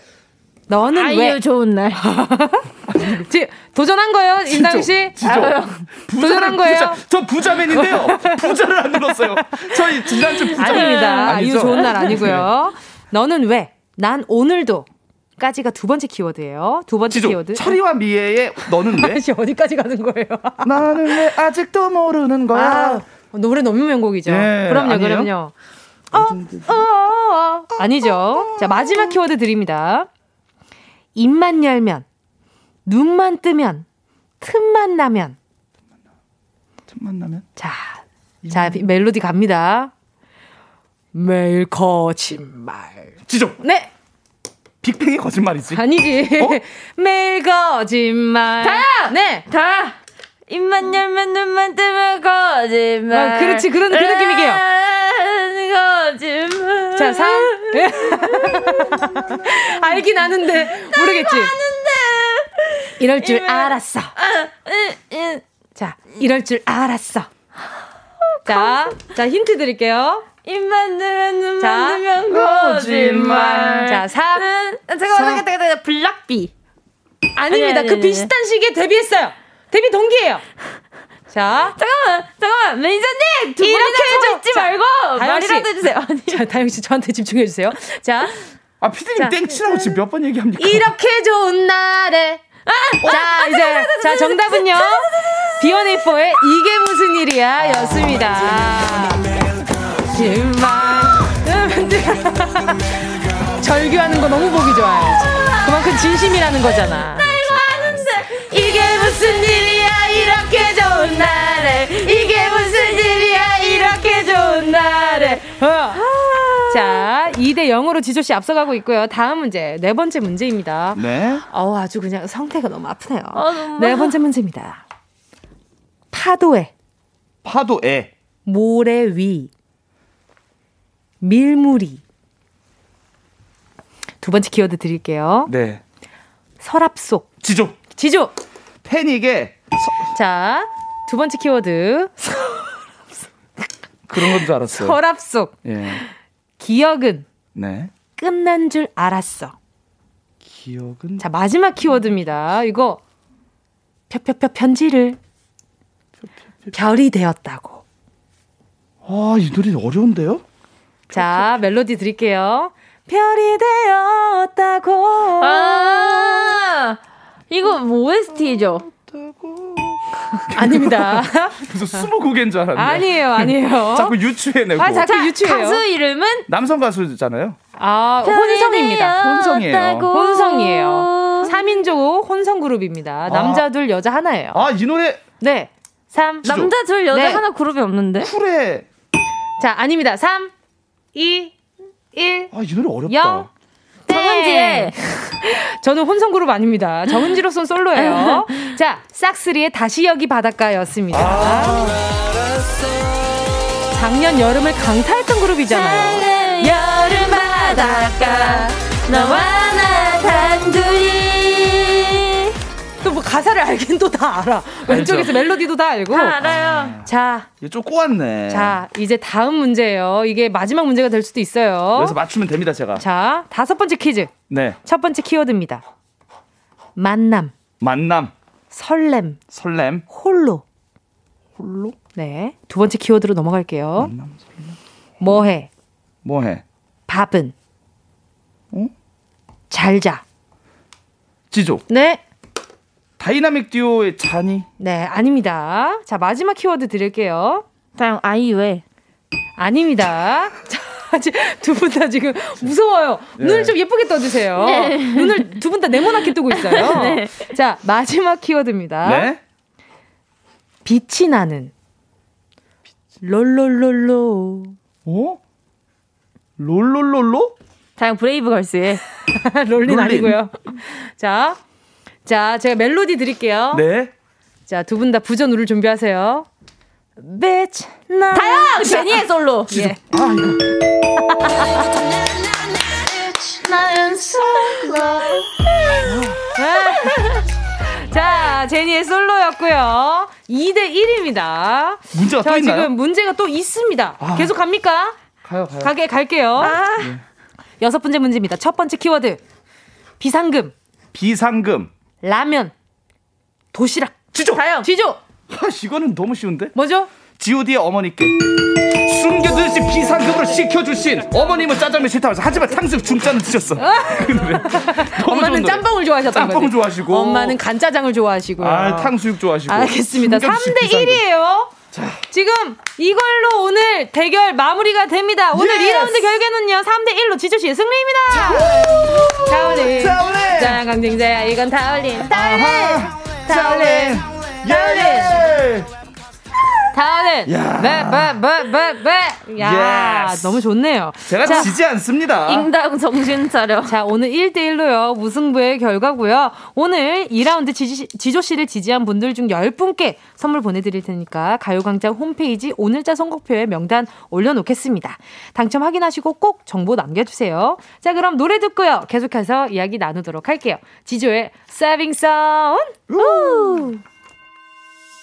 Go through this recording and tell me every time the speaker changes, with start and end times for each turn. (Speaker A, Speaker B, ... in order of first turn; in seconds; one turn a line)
Speaker A: 0.7-1.4
Speaker B: 0.9-2.0
Speaker A: 1.9-5.2
Speaker C: 2.9-3.2
Speaker C: 4.5-12.5
Speaker B: 5.2-5.8
Speaker A: 6.2-7.0
Speaker A: 7.7-8.6
Speaker A: 9.1-17.8
Speaker B: 10.5-12.1
Speaker C: 17.1-19.2
Speaker A: 18.6-21.3
Speaker C: 20.6-23.0
Speaker A: 22.5-25.5
Speaker C: 24.2-25.3
Speaker C: 26.1-26.8
Speaker A: 26.1-30.1
Speaker C: 28.3-28.9
Speaker A: 31.1-32.0
Speaker A: 32.9-33.8
Speaker A: 34.4-35.4
Speaker C: 36.9-37.5
Speaker A: 37.6-39.9
Speaker C: 38.4-38.8
Speaker A: 41.1-43.9
Speaker C: 43.3-43.6
Speaker C: 44.8-45.8
Speaker A: 45.7-49.4
Speaker B: 48.6-50.0
Speaker B: 50.5-65.4
Speaker A: 53.1-54.6
Speaker A: 56.9-61.5
Speaker A: 63.0-64.1
Speaker A: 65.7-67.3
Speaker B: 68.4-69.1
Speaker A: 68.4-70.2
Speaker B: 70.4-76.5
Speaker A: 71.6-72.1
Speaker C: 72.3-73.7
Speaker A: 73.2-74.5
Speaker C: 75.1-75.4
Speaker A: 77.3-80.4
Speaker B: 77.5-78.3
Speaker A: 81.3-81.8
Speaker B: 81.7-86.5
Speaker A: 83.6-85.7
Speaker A: 86.3-88.4
Speaker C: 88.8-90.9
Speaker A: 89.2-90.0
Speaker A: 90.6-92.4
Speaker B: 92.7-95.5
Speaker A: 93.0-99.3
Speaker B: 97.7-98.3
Speaker A: 100.0-116.0
Speaker B: 105.2-105.8
Speaker B: 107.2-117.1
Speaker A: 116.7-124.8
Speaker C: 120.9-121.4
Speaker B: 123.3-124.2
Speaker A: 126.1-126.7
Speaker C: 127.4-128.1
Speaker A: 128.4-129.5
Speaker A: 131.2-132.0
Speaker A: 134.2-135.5
Speaker C: 135.5-135.8
Speaker A: 136.6-137.3
Speaker C: 137.4-137.8
Speaker A: 137.9-138.3
Speaker C: 138.8-140.0
Speaker A: 140.1-142.7
Speaker C: 144.1-145.0
Speaker A: 144.1-147.3
Speaker C: 145.6-146.0
Speaker C: 147.5-147.9
Speaker A: 148.2-149.5
Speaker C: 150.4-151.2
Speaker A: 151.2-153.0
Speaker A: 154.1-155.2
Speaker C: 156.2-156.7
Speaker A: 156.7-157.8
Speaker C: 159.0-160.4
Speaker C: 161.1-161.5
Speaker A: 161.1-166.6
Speaker B: 165.4-167.0
Speaker B: 167.5-168.9
Speaker C: 168.8-175.1
Speaker A: 170.5-172.0
Speaker A: 172.7-174.2
Speaker A: 174.8-175.8
Speaker B: 175.0-176.4
Speaker C: 176.5-177.6
Speaker A: 177.8-179.2
Speaker B: 178.2-181.6
Speaker C: 179.2-180.1
Speaker A: 180.1-184.6
Speaker C: 183.3-183.7
Speaker C: 184.5-185.2
Speaker A: 185.4-187.4
Speaker B: 186.4-188.3
Speaker C: 188.2-188.8
Speaker A: 189.6-190.5
Speaker A: 191.1-191.5
Speaker A: 192.1-192.5
Speaker C: 192.5-193.5
Speaker A: 193.1-193.5
Speaker B: 194.1-194.9
Speaker A: 194.1-201.9
Speaker B: 197.1-197.4
Speaker B: 197.9-198.8
Speaker C: 201.1-202.6
Speaker B: 201.3-202.1
Speaker A: 203.9-209.6
Speaker B: 205.7-212.5
Speaker A: 213.0-216.4
Speaker C: 214.9-215.4
Speaker B: 216.1-217.0
Speaker C: 216.4-217.1
Speaker A: 217.0-217.5
Speaker C: 217.6-218.8
Speaker A: 218.5-222.2
Speaker C: 221.9-223.0
Speaker A: 223.0-225.8
Speaker C: 224.5-224.8
Speaker A: 226.9-227.5
Speaker C: 227.8-228.3
Speaker A: 228.7-229.4
Speaker C: 229.5-230.0
Speaker A: 230.1-230.6
Speaker C: 231.6-231.9
Speaker A: 232.1-234.1
Speaker C: 233.9-235.4
Speaker A: 235.2-235.7
Speaker C: 236.2-236.6
Speaker A: 237.1-237.5
Speaker A: 239.7-240.2
Speaker C: 241.5-241.8
Speaker A: 241.9-242.2
Speaker C: 243.2-244.7
Speaker A: 244.8-247.6
Speaker B: 247.9-248.8
Speaker A: 249.6-259.3
Speaker C: 253.4-253.7
Speaker B: 254.6-255.6
Speaker B: 256.5-257.5
Speaker C: 259.0-259.4
Speaker A: 260.8-261.7
Speaker A: 263.2-264.8
Speaker C: 265.1-265.4
Speaker C: 266.6-267.5
Speaker B: 268.0-269.0
Speaker A: 269.3-271.6
Speaker C: 269.8-270.4
Speaker A: 272.2-273.8
Speaker C: 273.7-274.1
Speaker A: 274.7-276.5
Speaker A: 277.2-280.0
Speaker B: 278.3-279.9
Speaker C: 279.8-280.6
Speaker A: 281.2-281.8
Speaker B: 281.9-286.1
Speaker C: 286.1-286.4
Speaker A: 286.5-295.2
Speaker B: 286.7-287.4
Speaker C: 292.1-292.9
Speaker C: 294.2-294.5
Speaker C: 295.4-295.9
Speaker A: 295.8-296.8
Speaker B: 296.6-297.1
Speaker A: 297.8-299.4
Speaker A: 300.2-300.7
Speaker C: 301.1-301.9
Speaker A: 302.2-302.7
Speaker A: 303.7-305.2
Speaker C: 304.3-304.6
Speaker B: 304.5-304.9
Speaker C: 305.5-306.7
Speaker A: 306.7-307.1
Speaker C: 307.3-317.6
Speaker A: 313.8-319.1
Speaker C: 318.6-321.2
Speaker A: 319.7-321.7
Speaker C: 321.9-322.2
Speaker A: 322.3-335.4
Speaker C: 325.5-326.3
Speaker C: 328.4-330.8
Speaker C: 332.3-335.9
Speaker A: 336.9-341.7
Speaker C: 337.4-338.4
Speaker C: 339.6-340.6
Speaker C: 341.3-342.7
Speaker B: 341.4-341.8
Speaker B: 342.4-344.0
Speaker A: 343.9-364.0
Speaker B: 363.1-363.9